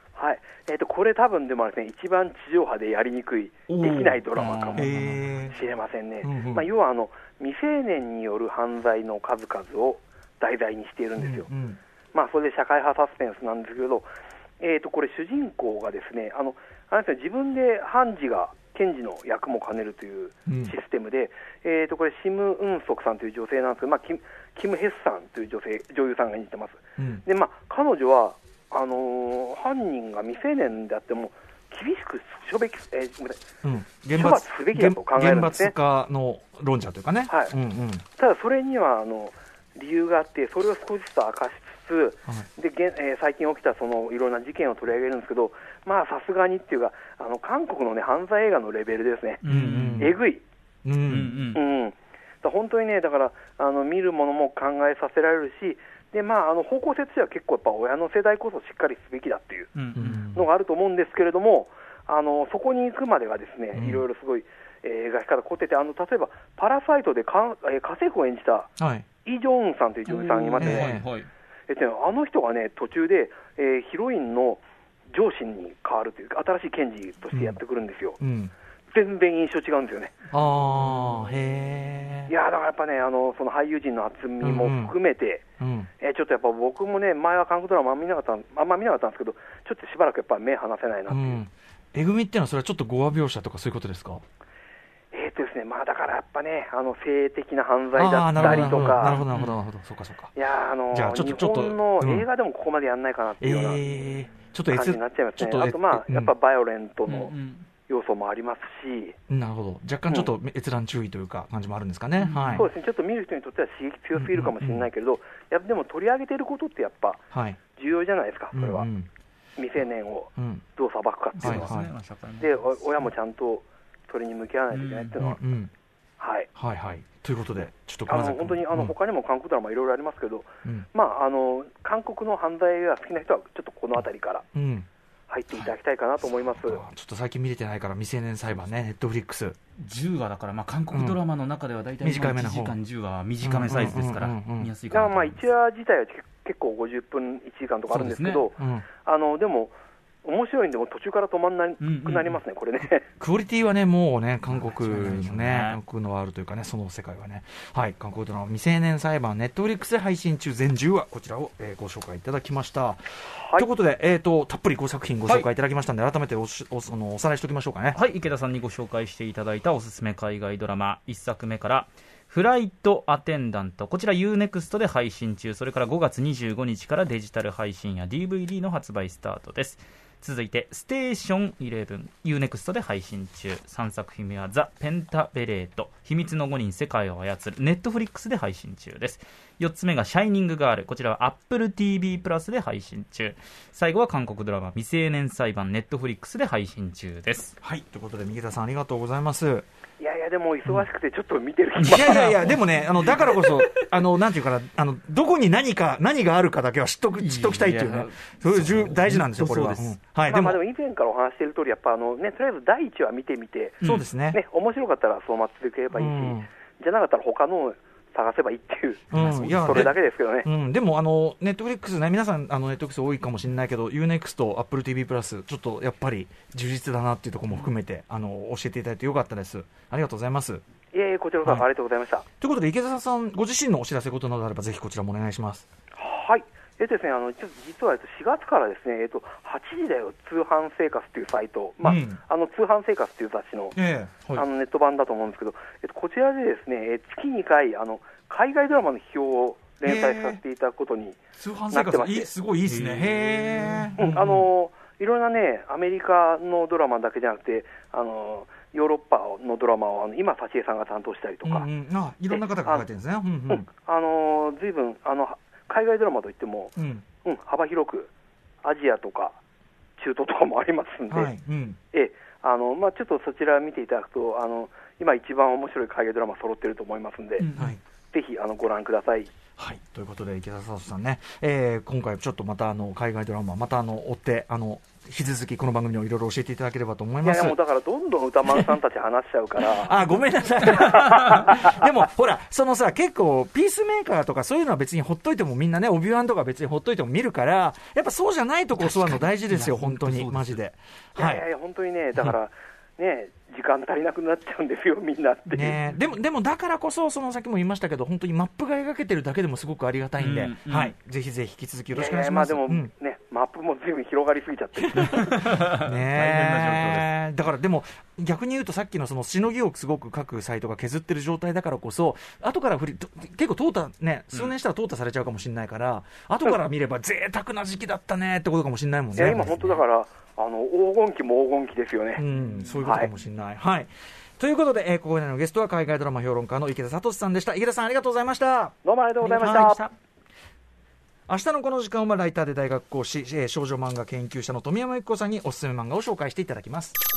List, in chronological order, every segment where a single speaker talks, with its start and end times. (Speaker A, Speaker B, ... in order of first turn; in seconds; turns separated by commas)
Speaker A: 0.1-4.9, Speaker B: 3.7-4.2, Speaker C: 4.3-5.2, Speaker B: 4.8-5.5, Speaker A: 5.5-11.5, Speaker B: 6.2-6.7, Speaker B: 11.2-11.8, Speaker A: 12.1-14.1, Speaker A: 14.6-33.4, Speaker B: 20.5-20.7, Speaker B: 27.0-27.2, Speaker B: 33.6-38.0, Speaker A: 34.1-35.7, Speaker A: 38.1-49.4, Speaker C: 49.4-50.1, Speaker B: 49.5-50.2, Speaker A: 50.0-50.4, Speaker B: 50.8-51.4, Speaker C: 51.1-51.6, Speaker A: 51.5-59.7, Speaker C: 59.7-60.1, Speaker B: 60.0-60.5, Speaker A: 60.3-68.7, Speaker B: 63.7-64.0, Speaker B: 68.8-69.0, Speaker A: 69.2-71.0, Speaker C: 70.1-71.3, Speaker B: 70.6-71.1, Speaker A: 71.7-78.2, Speaker B: 77.3-77.6, Speaker B: 78.2-78.5, Speaker A: 78.9-80.1, Speaker B: 80.3-82.3, Speaker A: 82.3-85.4, Speaker B: 84.4-84.9, Speaker B: 85.6-85.9, Speaker A: 86.0-91.4, Speaker B: 91.1-94.2, Speaker A: 95.1-99.2, Speaker B: 97.9-100.3, Speaker C: 98.3-99.6, Speaker A: 100.3-103.8, Speaker B: 100.9-102.2, Speaker B: 103.4-106.3, Speaker A: 104.7-107.3, Speaker C: 107.0-107.7, Speaker A: 107.9-109.2, Speaker B: 109.3-112.7, Speaker C: 112.2-112.7, Speaker A: 112.5-117.2, Speaker B: 114.1-114.9, Speaker B: 117.3-117.6, Speaker A: 117.7-118.9, Speaker B: 118.5-119.1, Speaker A: 119.6-121.7, Speaker B: 120.4-120.6, Speaker C: 121.3-122.5, Speaker B: 121.4-121.9, Speaker A: 122.4-125.4, Speaker C: 124.7-125.1, Speaker B: 125.2-125.7, Speaker A: 126.2-126.5, Speaker B: 126.5-128.9, Speaker A: 128.1-134.4, Speaker B: 134.5-134.9, Speaker A: 135.3-136.8, Speaker B: 136.2-139.6, Speaker C: 139.8-145.4, Speaker B: 140.9-141.2, Speaker B: 142.0-142.8, Speaker B: 143.4-144.7, Speaker A: 144.9-153.1, Speaker C: 147.9-148.5, Speaker B: 148.6-148.8, Speaker C: 151.8-152.4, Speaker B: 153.2-168.0, Speaker C: 154.5-155.8, Speaker A: 163.3-163.7, Speaker C: 167.9-197.5, Speaker B: 197.6-199.7, Speaker A: 200.0-202.3, Speaker C: 201.8-203.8, Speaker B: 201.8-210.6, Speaker C: 207.2-209.9, Speaker A: 210.3-220.5, Speaker C: 213.8-214.1, Speaker B: 213.8-214.4, Speaker B: 215.9-216.5, Speaker B: 219.1-230.6, Speaker C: 219.1-219.9, Speaker A: 230.9-232.2, Speaker B: 232.4-235.7, Speaker A: 235.9-243.8, Speaker B: 241.8-242.2, Speaker B: 243.8-244.4, Speaker A: 244.3-251.2, Speaker B: 249.8-250.4, Speaker B: 251.4-254.5, Speaker A: 251.7-252.3, Speaker C: 252.6-253.9, Speaker A: 254.0-261.7, Speaker B: 261.4-263.6, Speaker A: 262.3-262.9, Speaker A: 263.5-268.1, Speaker B: 266.8-267.0, Speaker A: 268.6-269.4, Speaker A: 270.0-271.3, Speaker B: 271.1-271.8, Speaker A: 271.9-277.4, Speaker C: 277.4-277.8, Speaker A: 278.1-279.3, Speaker B: 279.6-287.6, Speaker A: 287.2-290.0, Speaker B: 289.6-301.4, Speaker A: 290.6-291.8, Speaker C: 298.8-300.6, Speaker A: 301.2-305.8, Speaker B: 305.5-312.9, Speaker C: 310.2-310.9, Speaker A: 311.9-315.2, Speaker B: 314.8-329.8, Speaker C: 315.0-317.1, Speaker A: 329.1-332.2, Speaker B: 332.1-339.8, Speaker A: 332.8-333.1, Speaker A: 338.8-339.8, Speaker C: 339.2-339.9, Speaker B: 341.3-347.0